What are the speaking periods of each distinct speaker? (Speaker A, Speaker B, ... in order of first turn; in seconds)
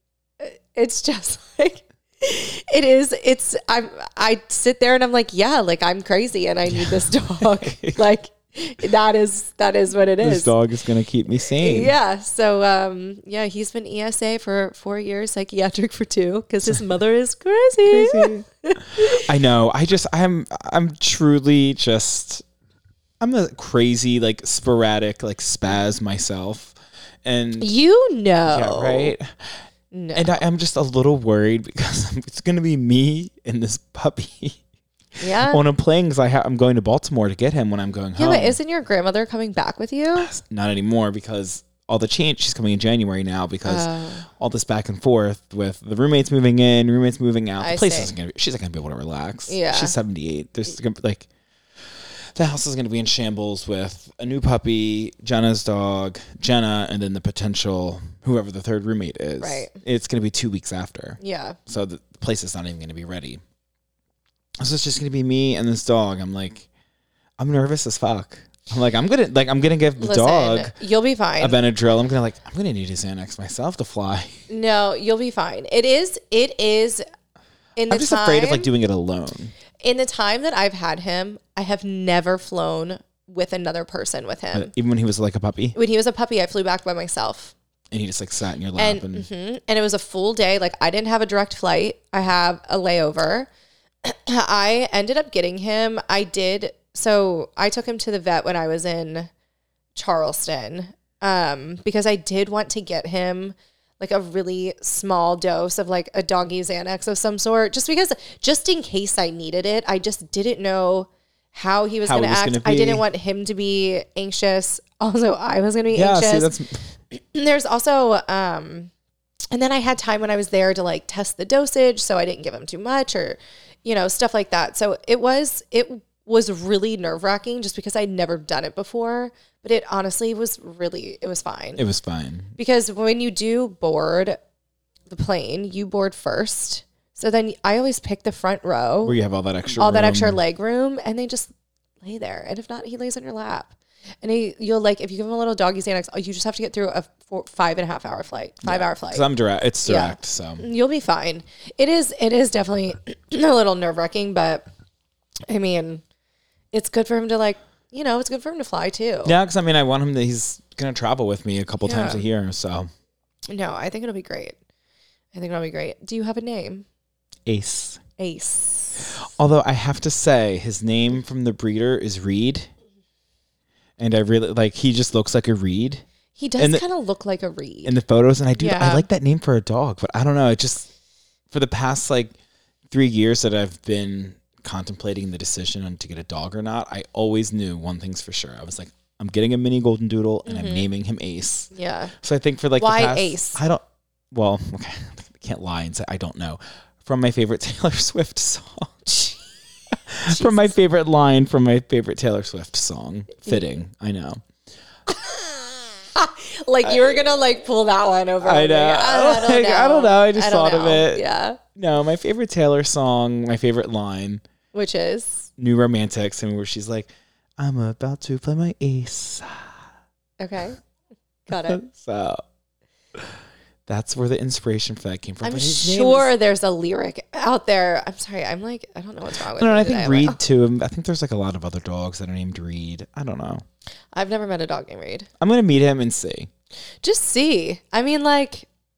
Speaker A: 0.4-10.5, 11.4-19.2, 27.6-29.1, 29.9-30.4, 35.2-35.6, 38.2-40.3, 43.6-44.3, 47.6-48.1, 49.5-50.0, 59.4-59.8, 61.2-61.6, 70.0-71.6, 74.5-77.0, 77.8-78.7, 79.8-84.7, 85.8-87.5, 88.8-93.5, 94.0-99.3, 100.0-116.5, 117.1-118.9, 119.5-131.8, 132.6-134.4, 135.1-139.2, 139.7-141.5, 142.0-149.2, 149.8-154.6, 155.5-156.0, 156.7-159.3, 161.8-162.2, 163.5-164.6, 165.3-166.8, 168.2-169.1, 176.4-177.9, 178.6-179.1, 190.5-190.9, 191.7-192.1, 192.8-193.6, 199.1-199.5, 200.3-200.8, 205.1-211.6, 214.7-215.5, 220.4-220.8, 221.5-221.8, 225.4-230.4, 234.1-235.3, 237.0-238.7
Speaker B: 6.7-8.0, 10.2-11.9, 17.9-18.4, 19.0-22.4, 23.2-27.7, 28.5-29.5, 30.1-34.6, 35.4-38.6, 40.2-51.3, 52.4-63.4, 64.6-66.7, 67.4-70.7, 71.4-74.4, 77.9-79.5, 84.5-85.8, 87.9-89.3, 112.1-113.0, 115.9-116.8, 131.8-132.5, 139.0-140.4, 148.6-150.7, 159.2-162.9, 167.5-168.0, 169.0-172.7, 174.0-176.0, 176.6-176.8, 177.8-180.9, 181.5-182.3, 182.9-199.1, 200.1-204.4, 208.4-211.2, 211.8-214.4, 215.6-219.8, 221.6-222.4, 223.9-226.3, 229.6-233.6, 235.4-236.5